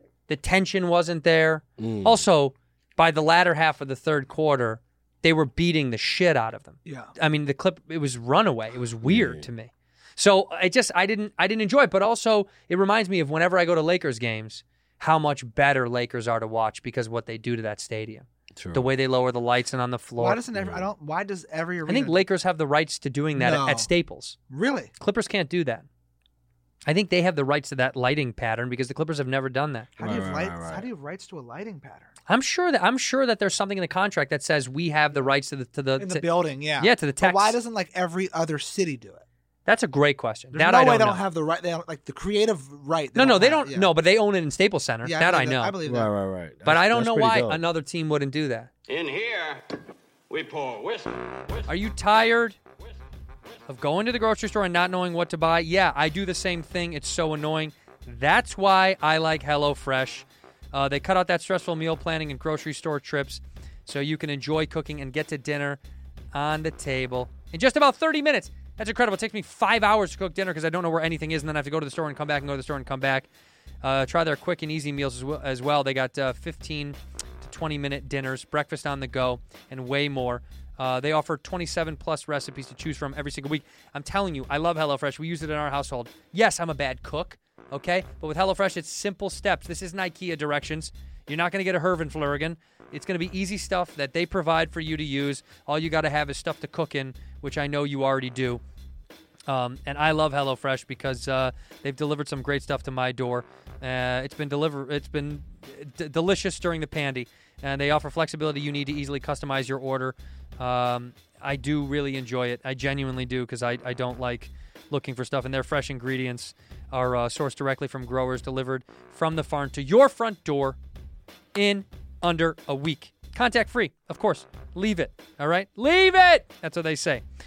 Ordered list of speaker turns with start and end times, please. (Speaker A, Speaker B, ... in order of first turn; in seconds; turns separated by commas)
Speaker A: 0.3-20.4, Speaker B: 1.8-2.2, Speaker C: 6.8-7.1, Speaker B: 9.0-9.4, Speaker B: 18.5-18.9, Speaker C: 20.2-22.2, Speaker B: 20.5-20.9, Speaker A: 21.9-24.4, Speaker C: 23.4-23.9, Speaker C: 24.5-24.9, Speaker A: 25.0-25.9, Speaker A: 26.9-29.9, Speaker C: 30.0-32.1, Speaker B: 30.0-30.9, Speaker A: 32.3-36.2, Speaker C: 36.0-39.2, Speaker A: 36.8-37.6, Speaker A: 39.6-41.2, Speaker C: 40.5-43.9, Speaker A: 43.1-45.8, Speaker C: 45.0-46.1, Speaker B: 45.8-47.6, Speaker A: 46.6-48.7, Speaker D: 48.9-49.6, Speaker D: 50.3-51.7, Speaker A: 51.7-52.6, Speaker D: 52.8-53.6, Speaker A: 53.7-65.8, Speaker A: 66.3-73.3, Speaker A: 73.8-98.6, Speaker A: 99.5-120.8, Speaker A: 121.5-127.2